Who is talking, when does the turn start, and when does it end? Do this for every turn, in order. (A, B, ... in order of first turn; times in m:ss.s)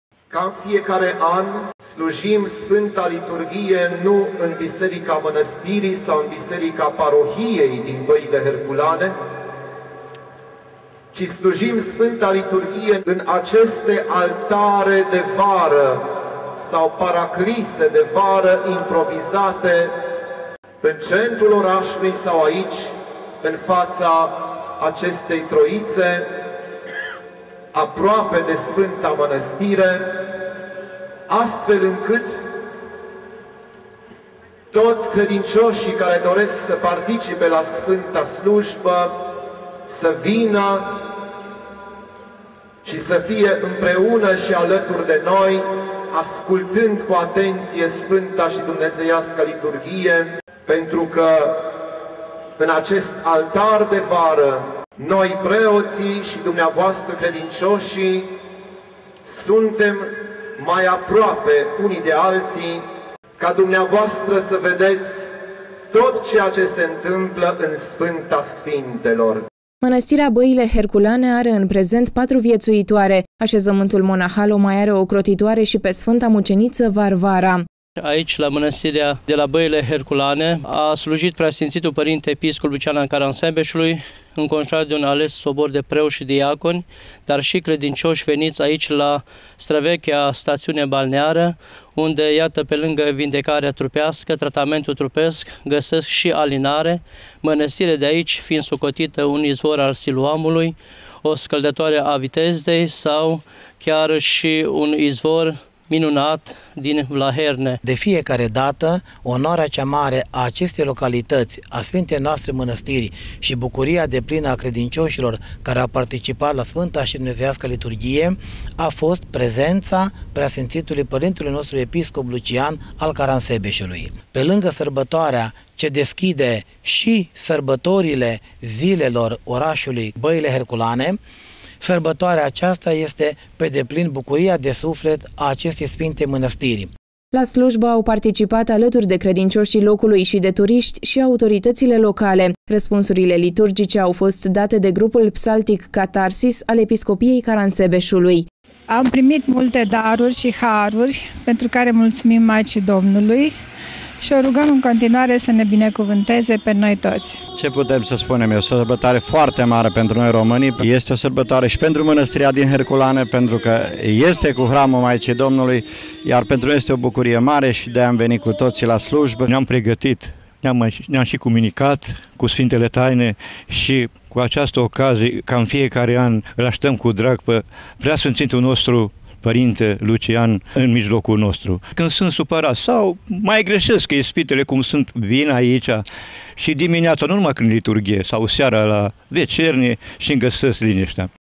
0:00.3-0:09.2 A
0:11.1-0:19.9 A
0:20.8-0:26.3 A
0:27.7-0:30.2 A
0:31.3-0:32.4 A
0:34.7-0:39.2 A
0:39.9-0:41.0 A
0:42.8-0:51.6 A
0:52.6-0:58.3 A
0:59.2-1:02.8 A
1:03.4-1:05.3 A
1:05.9-1:09.4 A
1:09.8-1:17.6 B
1:18.0-1:47.8 C
1:47.8-2:11.2 D
2:11.8-2:16.9 D
2:17.3-2:28.4 B
2:28.9-2:33.5 E
2:34.2-2:37.4 E
2:37.5-2:49.5 F
2:49.5-3:06.0 G
3:06.6-3:11.3 G